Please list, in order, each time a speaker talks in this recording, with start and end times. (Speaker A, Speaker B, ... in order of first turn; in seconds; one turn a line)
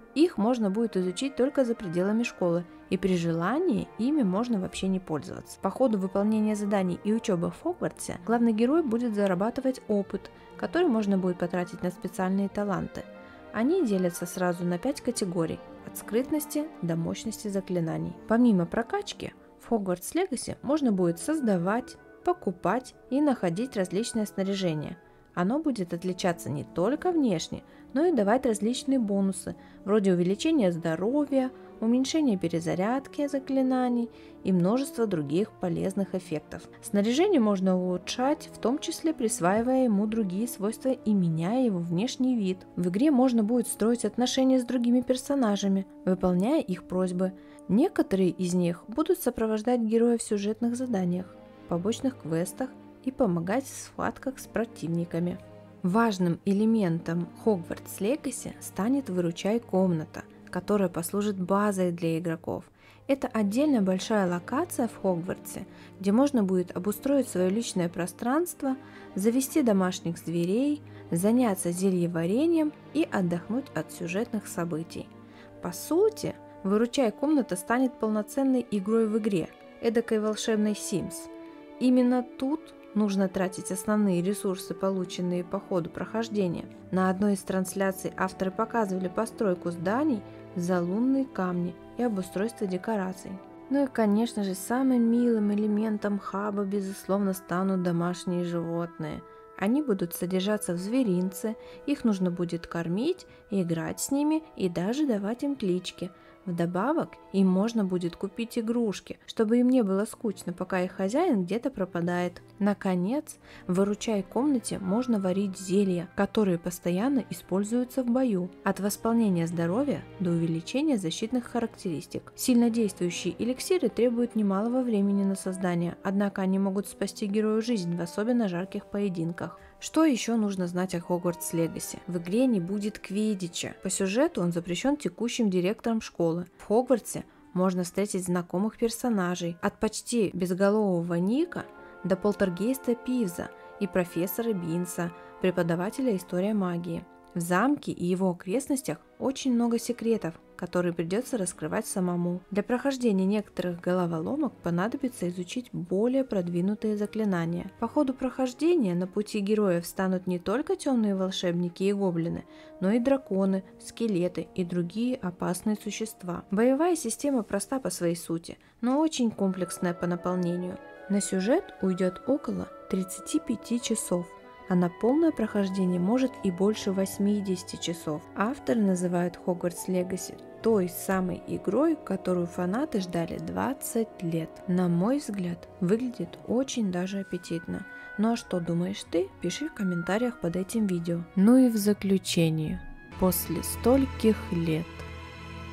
Speaker A: 0.1-75.1
Speaker A: 75.6-195.1